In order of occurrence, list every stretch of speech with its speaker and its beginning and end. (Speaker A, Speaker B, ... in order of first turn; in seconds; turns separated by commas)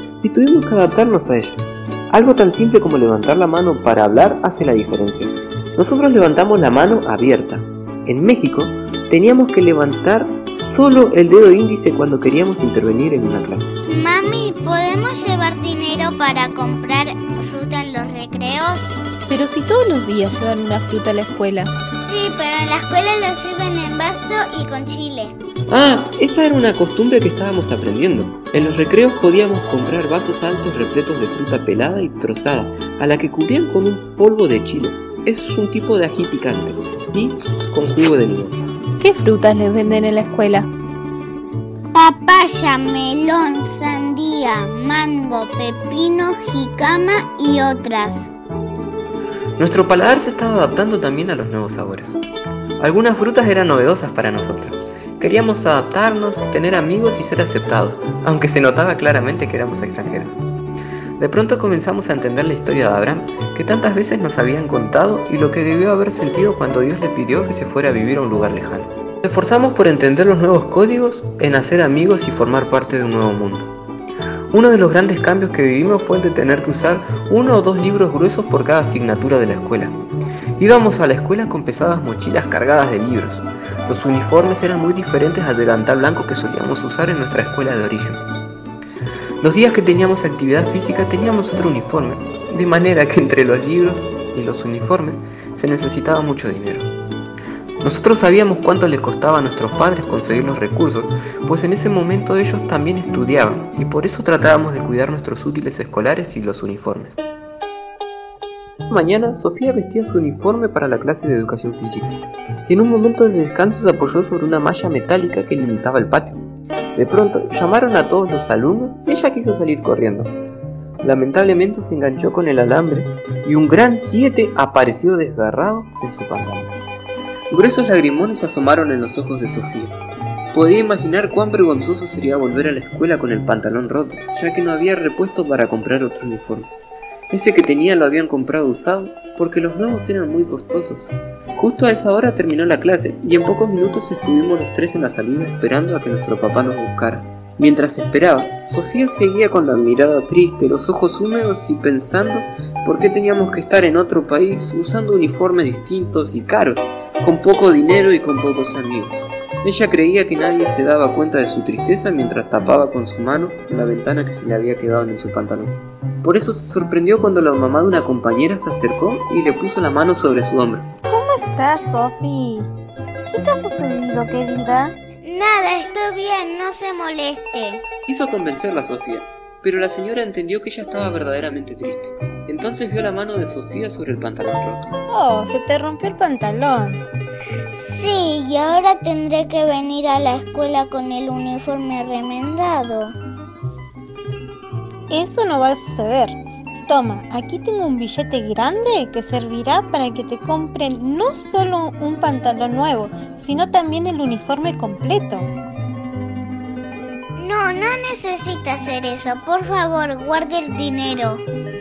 Speaker A: 0.2-13.7, Speaker B: 13.9-19.0, Speaker C: 19.3-21.7, Speaker B: 22.0-25.4, Speaker A: 25.7-38.6, Speaker C: 39.0-40.7, Speaker B: 41.9-48.3, Speaker A: 49.6-52.1, Speaker A: 52.8-60.4, Speaker A: 61.2-73.7, Speaker A: 74.5-80.0, Speaker A: 80.6-88.2, Speaker A: 89.4-96.9, Speaker A: 97.8-107.2, Speaker A: 108.9-116.4, Speaker A: 116.9-120.3, Speaker A: 121.0-126.7, Speaker A: 127.5-130.0, Speaker A: 130.5-136.7, Speaker A: 137.3-170.9, Speaker D: 171.1-172.7, Speaker D: 173.3-174.9, Speaker B: 175.2-177.8, Speaker A: 178.1-184.9, Speaker D: 185.1-187.0, Speaker B: 187.7-193.1, Speaker D: 195.1-205.5, Speaker B: 207.4-211.4